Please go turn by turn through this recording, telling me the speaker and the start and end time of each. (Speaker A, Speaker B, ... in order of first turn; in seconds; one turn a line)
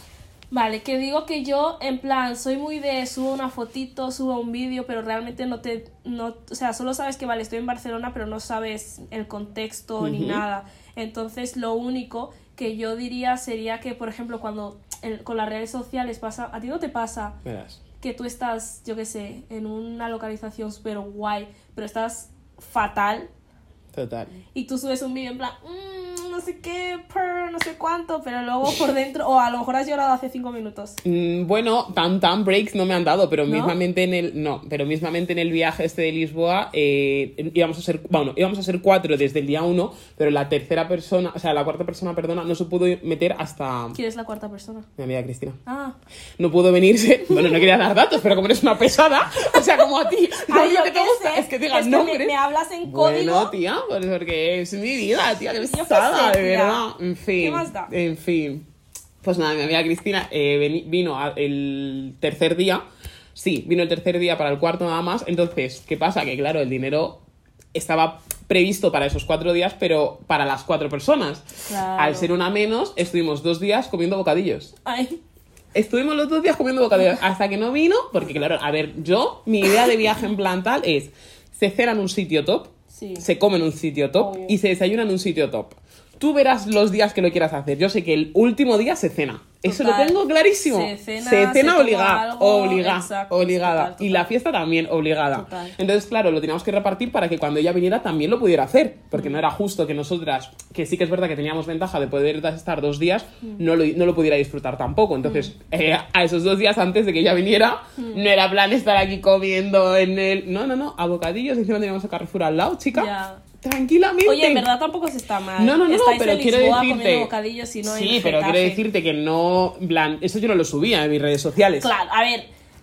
Speaker A: 0.5-17.3
Speaker B: 10.0-10.4
Speaker B: 17.4-17.8
Speaker A: 18.0-23.3
Speaker B: 23.9-24.4
Speaker A: 24.5-31.0
Speaker B: 31.0-44.0
Speaker A: 33.5-33.8
Speaker A: 43.9-44.9
Speaker B: 45.0-45.6
Speaker A: 45.6-46.0
Speaker B: 46.4-58.6
Speaker A: 47.3-47.6
Speaker A: 50.5-53.5
Speaker A: 55.6-56.8
Speaker A: 57.4-57.9
Speaker B: 59.2-67.2
Speaker B: 67.7-71.5
Speaker A: 71.7-72.3
Speaker B: 72.0-74.7
Speaker A: 74.8-75.2
Speaker B: 75.7-114.7
Speaker A: 82.9-83.3
Speaker A: 84.2-84.6
Speaker A: 89.6-94.3
Speaker A: 95.3-95.7
Speaker A: 99.1-99.4
Speaker A: 105.2-105.5
Speaker A: 108.0-108.2
Speaker A: 112.9-113.4
Speaker A: 114.2-118.8
Speaker B: 115.6-117.3
Speaker B: 117.8-121.9
Speaker A: 121.8-122.5